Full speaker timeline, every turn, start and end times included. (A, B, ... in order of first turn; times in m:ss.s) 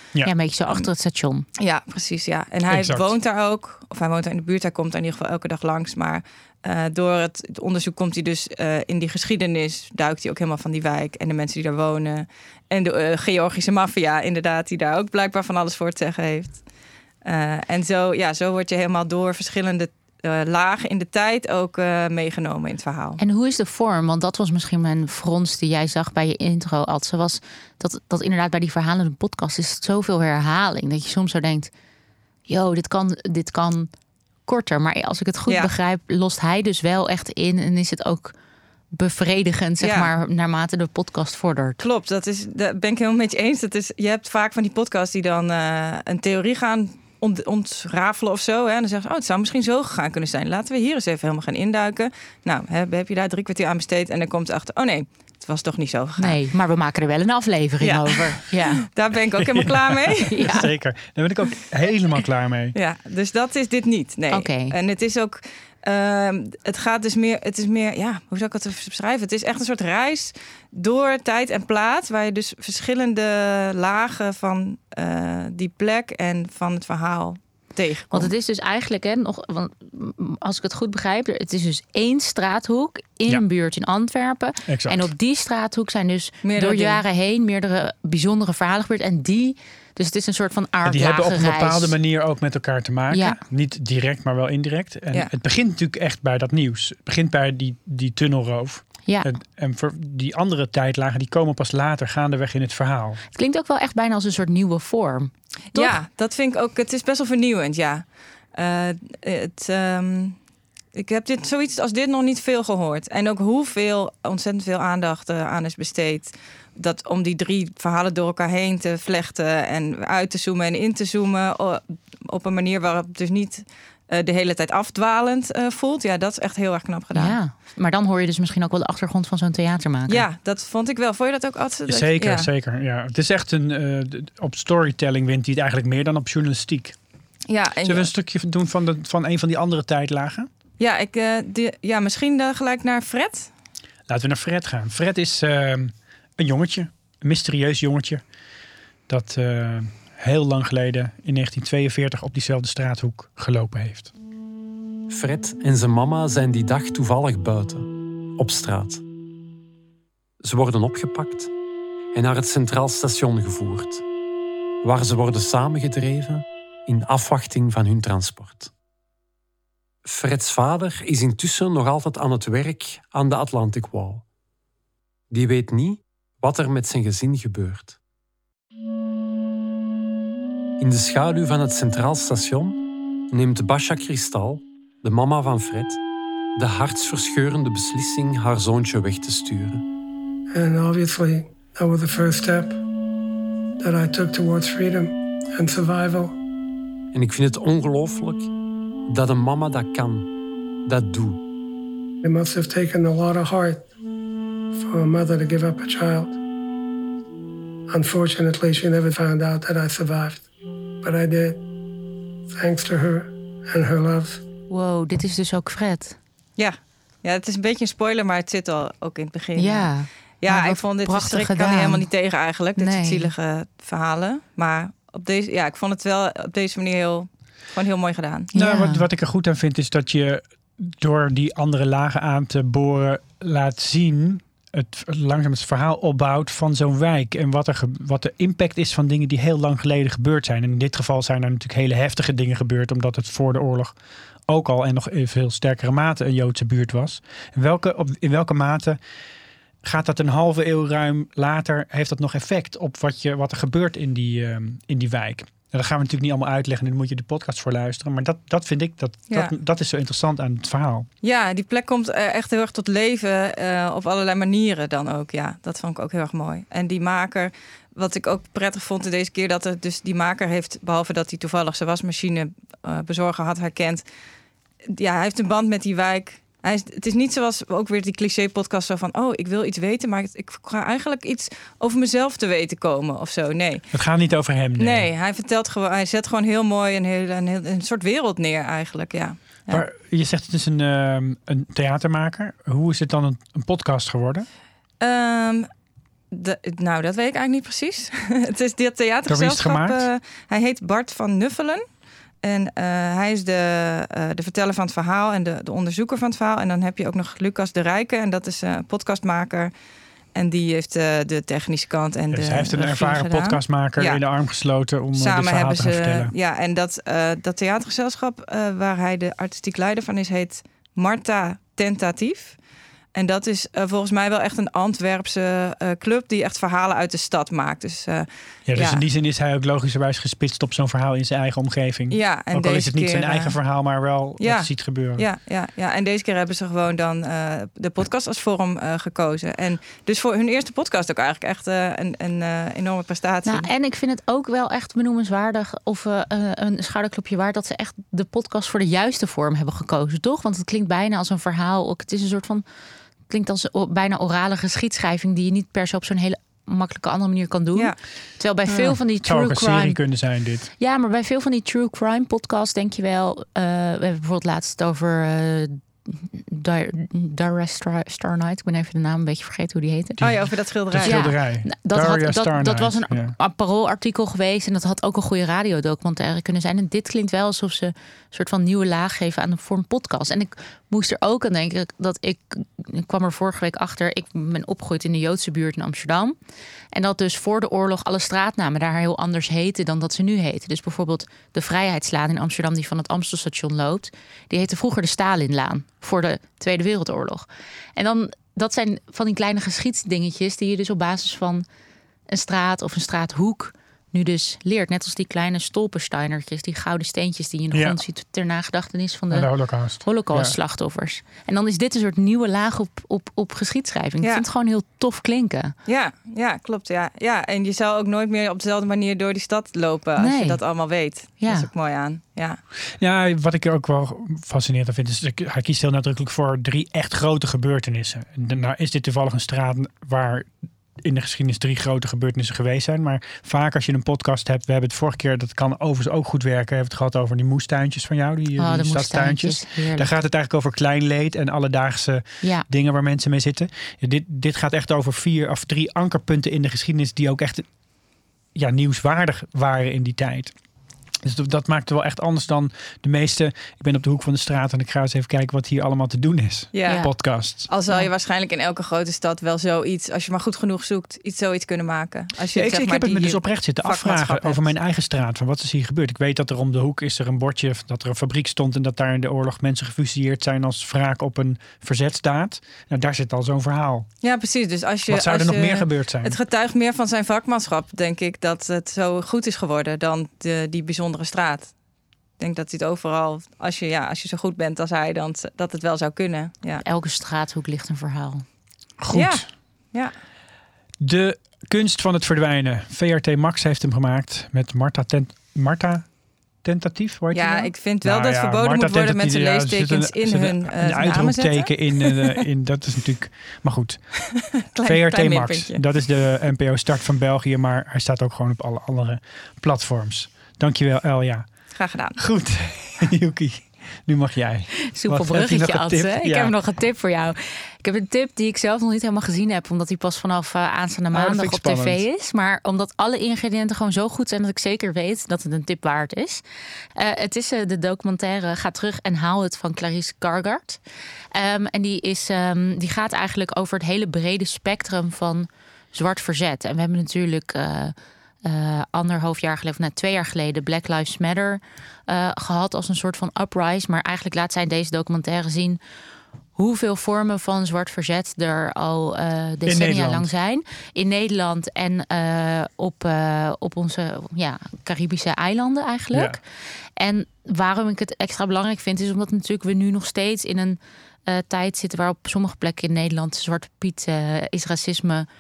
0:00.2-0:01.5 A
0:01.6-0:16.6 B
0:02.7-0:03.1 C
0:17.2-0:23.2 B
0:23.2-0:31.7 A
0:32.5-0:33.9 A
0:34.5-0:38.4 A
0:35.5-0:35.7 B
0:38.9-0:41.8 A
0:39.8-0:40.1 B
0:41.8-0:56.4 B
0:56.2-0:58.8 A
0:57.8-1:00.6 B
0:59.4-1:02.8 C
1:00.3-1:00.7 A
1:02.7-1:18.3 B
1:04.3-1:04.8 A
1:18.1-1:32.0 A
1:24.7-1:25.1 C
1:26.4-1:27.0 B
1:30.9-1:43.2 C
1:33.1-1:33.4 A
1:43.4-1:46.0 A
1:45.7-1:50.4 B
1:51.0-2:07.4 B
2:07.1-2:10.2 A
2:10.1-2:12.5 B
2:11.9-2:17.0 C
2:17.5-2:18.1 B
2:17.8-2:20.5 C
2:20.8-2:23.5 B
2:24.1-2:28.2 C
2:29.1-2:34.1 C
2:35.1-2:39.0 D
2:40.4-2:41.5 D
2:42.1-2:44.0 D
2:44.8-2:48.7 D
2:50.0-2:54.2 D
2:55.3-2:58.0 D
3:00.8-3:02.8 D
3:03.3-3:06.0 D
3:06.6-3:09.8 D
3:10.5-3:12.8 E
3:13.8-3:16.4 E
3:17.1-3:18.5 D
3:19.1-3:20.3 D
3:20.9-3:21.4 D
3:22.2-3:23.9 E
3:24.7-3:26.4 E
3:27.9-3:30.5 E
3:31.0-3:31.6 E
3:32.5-3:34.4 E
3:34.7-3:36.2 A
3:36.6-3:48.5 B
3:39.6-3:42.1 A
3:42.8-3:43.3 A
3:48.5-3:49.1 A
3:48.6-4:04.0 C
4:04.5-4:09.0 C
4:09.8-4:21.1 C
4:21.2-4:34.1 B
4:34.9-4:43.9 B
4:43.9-4:45.1 C
4:44.8-4:49.8 B
4:49.7-4:54.5 C
4:55.0-4:55.7 B
4:56.3-5:01.8 B
4:59.3-5:00.1 C
5:02.4-5:09.7 B
5:10.3-5:14.2 B
5:12.3-5:16.3 C
5:15.1-5:22.6 B
5:23.1-5:29.0 B
5:28.7-5:35.2 C
5:32.1-5:33.6 B
5:34.4-5:43.7 B
5:43.5-5:52.6 A
5:53.3-6:00.0 A
5:58.7-6:00.7 C
6:00.8-6:10.2 A
6:10.2-6:13.3 C
6:10.2-6:11.3 B
6:11.0-6:26.4 A
6:26.9-6:41.7 A
6:42.3-6:55.8 A
6:47.7-6:48.0 C
6:49.3-6:50.6 C
6:54.2-6:54.5 B
6:55.9-7:02.6 B
7:00.2-7:00.6 A
7:01.4-7:01.7 A
7:03.0-7:27.7 C
7:18.6-7:20.1 A
7:28.6-7:30.6 C
7:31.2-7:37.7 C
7:36.7-7:44.7 B
7:36.9-7:37.3 A
7:42.5-7:54.1 C
7:54.2-8:01.8 B
7:55.1-7:56.4 C
8:02.4-8:06.8 B
8:06.8-8:08.4 A
8:09.0-8:09.4 C
8:09.1-8:10.1 B
8:11.0-8:24.2 C
8:17.3-8:22.2 B
8:24.4-8:25.8 B
8:24.8-8:31.5 C
8:31.8-8:32.2 B
8:32.2-8:36.5 C
8:34.9-8:46.4 A
8:41.1-8:42.0 C
8:47.0-8:50.8 A
8:51.3-9:05.8 A
9:06.6-9:16.4 A
9:09.7-9:10.3 C
9:16.1-9:16.4 C
9:17.0-9:25.3 A